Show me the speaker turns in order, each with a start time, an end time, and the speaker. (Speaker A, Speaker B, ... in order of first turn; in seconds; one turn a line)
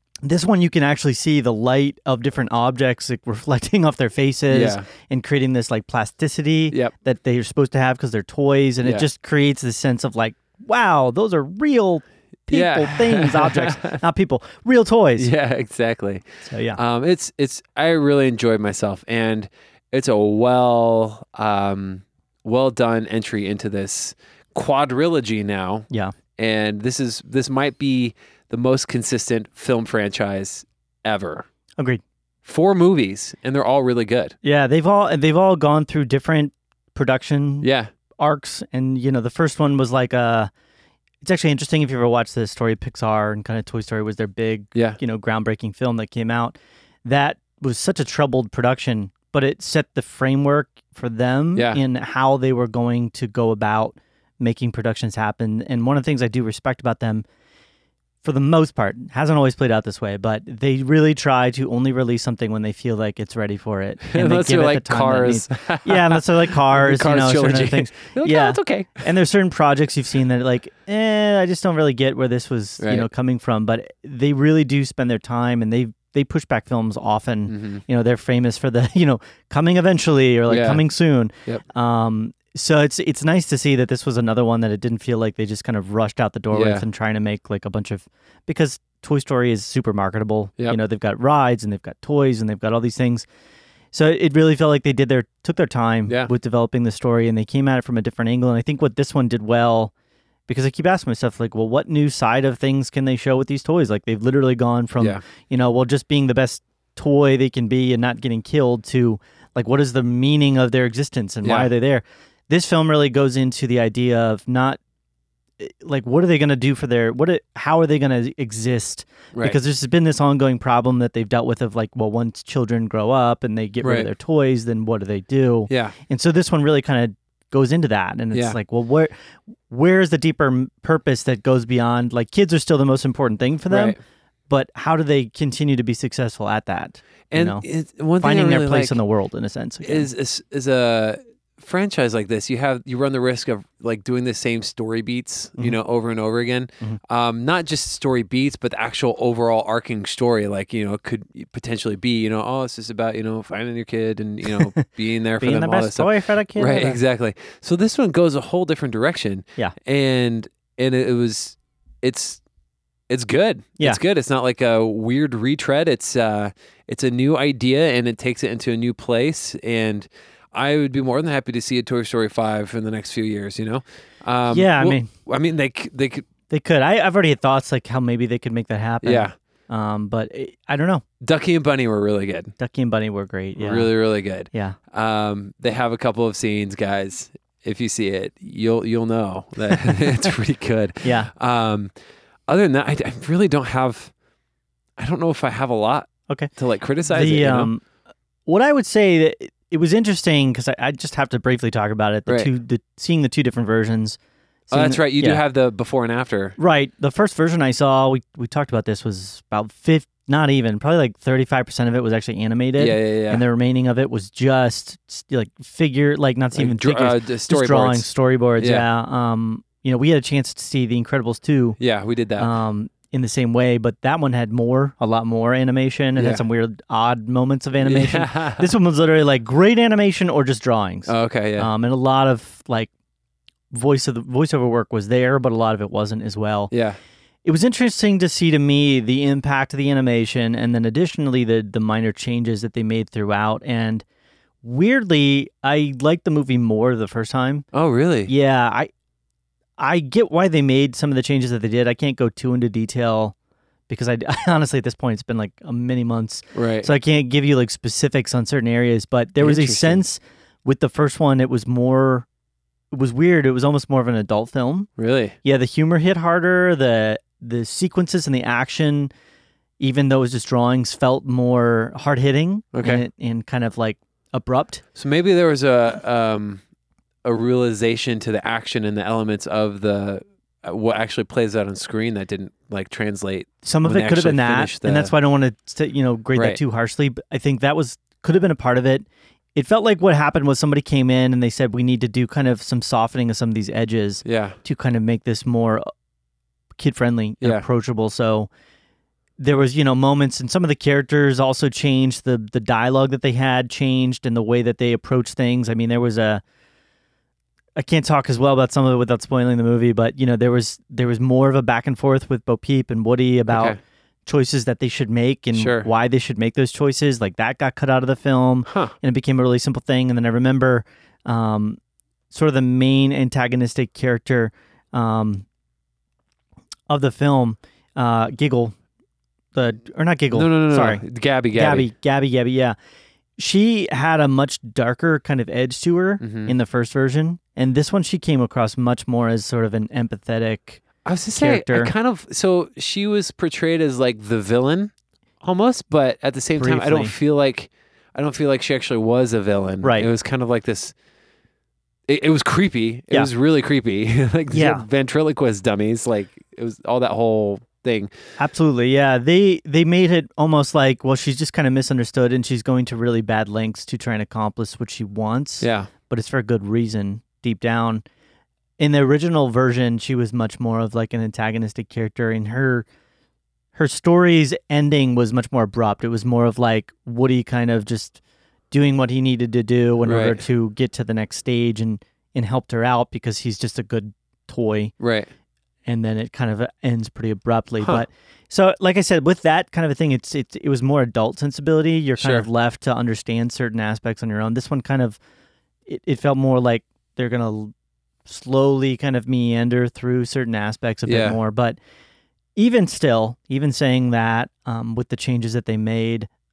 Speaker A: 0.2-15.3
Speaker B: 4.5-4.8
Speaker B: 8.8-9.1
Speaker B: 12.5-14.0
Speaker B: 15.2-31.4
Speaker A: 16.4-16.8
Speaker B: 32.4-34.3
Speaker A: 34.4-37.7
Speaker B: 37.6-37.9
Speaker A: 38.2-40.5
Speaker A: 41.2-57.2
Speaker B: 44.7-45.0
Speaker B: 51.5-51.8
Speaker A: 58.2-93.2
Speaker B: 64.1-69.1
Speaker B: 72.8-73.1
Speaker B: 77.5-77.8
Speaker B: 80.5-80.8
Speaker B: 86.5-86.8
Speaker A: 93.9-99.9
Speaker B: 96.1-96.3
Speaker A: 100.5-114.8
Speaker B: 111.4-111.7
Speaker A: 115.6-129.1
Speaker B: 119.3-119.6
Speaker B: 123.8-124.1
Speaker B: 125.7-126.0
Speaker A: 129.7-133.9
Speaker B: 133.7-134.0
Speaker A: 134.5-137.6
Speaker B: 137.3-139.0
Speaker A: 138.2-140.1
Speaker B: 139.8-162.4
Speaker A: 155.4-157.0
Speaker B: 163.1-176.3
Speaker A: 174.5-175.1
Speaker A: 176.5-181.0
Speaker B: 179.0-179.3
Speaker B: 181.2-182.5
Speaker A: 182.6-183.9
Speaker B: 183.6-191.9
Speaker A: 184.5-184.8
Speaker A: 191.0-191.3
Speaker B: 192.5-194.1
Speaker B: 195.0-197.7
Speaker A: 197.1-197.8
Speaker A: 198.5-204.2
Speaker A: 204.7-205.4
Speaker B: 204.7-206.6
Speaker A: 206.6-221.8
Speaker B: 212.8-213.4
Speaker B: 216.5-218.1
Speaker B: 218.6-218.8
Speaker B: 221.8-222.5
Speaker A: 222.4-232.9
Speaker B: 226.2-226.4
Speaker B: 227.8-228.7
Speaker B: 231.1-231.7
Speaker A: 233.7-236.7
Speaker B: 236.7-237.0
Speaker A: 237.4-244.0
Speaker A: 244.6-247.7
Speaker B: 247.7-248.3
Speaker A: 248.3-248.9
Speaker A: 249.8-253.3
Speaker A: 253.9-262.3
Speaker B: 256.5-256.9
Speaker B: 259.4-260.0
Speaker A: 262.9-264.9
Speaker B: 265.0-265.3
Speaker A: 265.4-269.1
Speaker A: 269.8-274.8
Speaker B: 272.7-273.0
Speaker B: 274.9-276.6
Speaker B: 277.2-285.1
Speaker A: 283.6-295.9
Speaker B: 286.3-286.6
Speaker B: 294.2-294.6
Speaker A: 296.8-298.5
Speaker A: 299.4-306.4
Speaker A: 307.8-321.8
Speaker B: 313.5-313.8
Speaker B: 315.5-315.9
Speaker B: 318.7-318.9
Speaker A: 322.3-325.4
Speaker A: 326.9-328.7
Speaker A: 329.5-332.8
Speaker B: 330.3-331.9
Speaker A: 333.4-340.8
Speaker B: 336.2-336.5
Speaker B: 341.0-350.9
Speaker A: 341.3-341.9
Speaker A: 346.6-347.1
Speaker A: 349.8-350.1
Speaker B: 352.1-358.1
Speaker A: 354.5-354.9
Speaker A: 358.4-368.0
Speaker B: 365.6-365.9
Speaker A: 368.8-372.9
Speaker A: 373.7-378.2
Speaker A: 378.7-384.9
Speaker B: 380.0-380.4
Speaker B: 385.0-385.3
Speaker A: 385.8-395.2
Speaker B: 392.2-392.4
Speaker A: 395.9-397.7
Speaker A: 398.2-401.8
Speaker B: 401.1-401.4
Speaker A: 402.6-406.3